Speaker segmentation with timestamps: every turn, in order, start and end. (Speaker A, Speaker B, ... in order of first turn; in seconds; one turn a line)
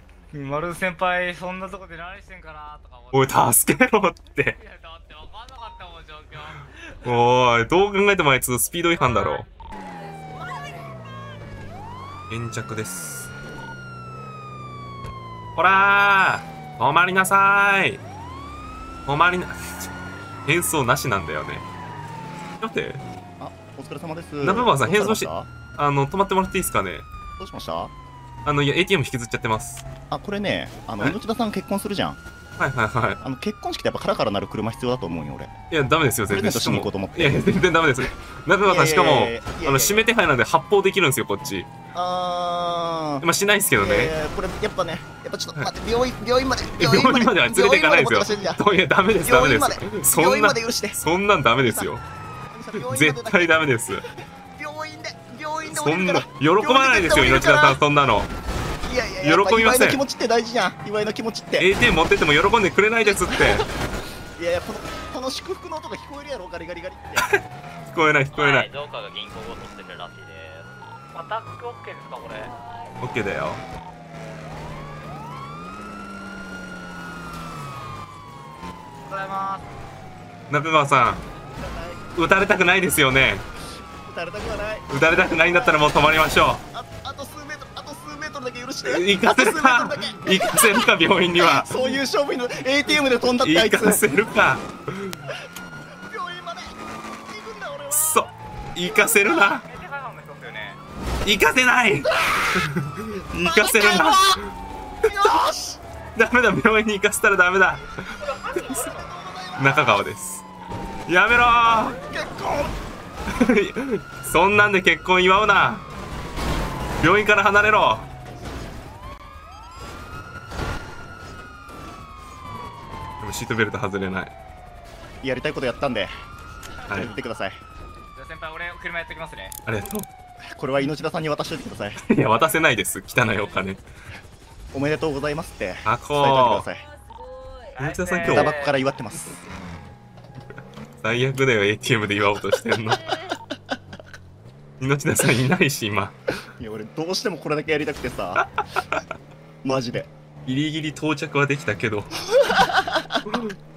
Speaker A: 0.3-3.4
Speaker B: 3.1-4.6
Speaker A: 4.6-6.7
Speaker B: 7.0-9.5
Speaker B: 12.3-13.3
Speaker B: 15.6-18.0
Speaker B: 19.1-19.9
Speaker B: 20.4-21.6
Speaker B: 22.6-23.0
Speaker C: 23.4-25.5
Speaker B: 24.4-27.1
Speaker C: 27.4-27.9
Speaker B: 28.4-29.8
Speaker C: 30.1-32.2
Speaker B: 32.6-33.2
Speaker C: 33.2-35.5
Speaker B: 35.7-41.7
Speaker C: 36.3-37.5
Speaker C: 38.6-40.0
Speaker C: 41.9-43.2
Speaker B: 43.2-44.1
Speaker C: 43.8-48.6
Speaker B: 46.8-52.0
Speaker C: 49.1-51.0
Speaker C: 51.6-51.9
Speaker C: 52.5-54.0
Speaker B: 52.7-54.0
Speaker C: 54.5-57.8
Speaker B: 55.7-58.3
Speaker C: 58.8-61.7
Speaker B: 59.2-60.0
Speaker B: 61.6-63.6
Speaker C: 64.4-67.3
Speaker B: 67.2-68.7
Speaker D: 68.3-70.7
Speaker A: 71.1-72.5
Speaker B: 73.0-73.6
Speaker A: 79.0-79.7
Speaker B: 80.5-81.2
Speaker C: 81.5-82.0
Speaker B: 82.2-83.4
Speaker C: 84.0-86.0
Speaker B: 84.9-86.6
Speaker C: 86.7-94.0
Speaker B: 88.8-91.9
Speaker B: 93.4-95.2
Speaker C: 96.0-98.3
Speaker B: 97.9-99.7
Speaker A: 99.2-100.8
Speaker B: 101.2-104.5
Speaker C: 103.3-104.4
Speaker C: 105.0-105.8
Speaker B: 105.1-105.5
Speaker B: 106.2-108.9
Speaker C: 108.5-110.0
Speaker B: 109.5-110.5
Speaker B: 111.1-112.0
Speaker C: 111.9-112.8
Speaker B: 113.3-115.8
Speaker B: 117.0-118.0
Speaker B: 123.2-124.3
Speaker C: 125.2-126.1
Speaker B: 126.9-127.1
Speaker C: 126.9-127.6
Speaker A: 128.1-129.6
Speaker B: 129.7-130.1
Speaker C: 130.4-132.0
Speaker B: 132.0-133.8
Speaker C: 134.7-136.8
Speaker B: 135.8-136.7
Speaker A: 137.7-138.8
Speaker B: 137.8-138.6
Speaker C: 138.2-139.4
Speaker B: 141.0-143.1
Speaker B: 144.8-146.2
Speaker C: 146.6-148.4
Speaker B: 148.4-149.0
Speaker C: 149.6-150.1
Speaker B: 150.4-152.3
Speaker C: 152.5-153.1
Speaker B: 153.2-153.6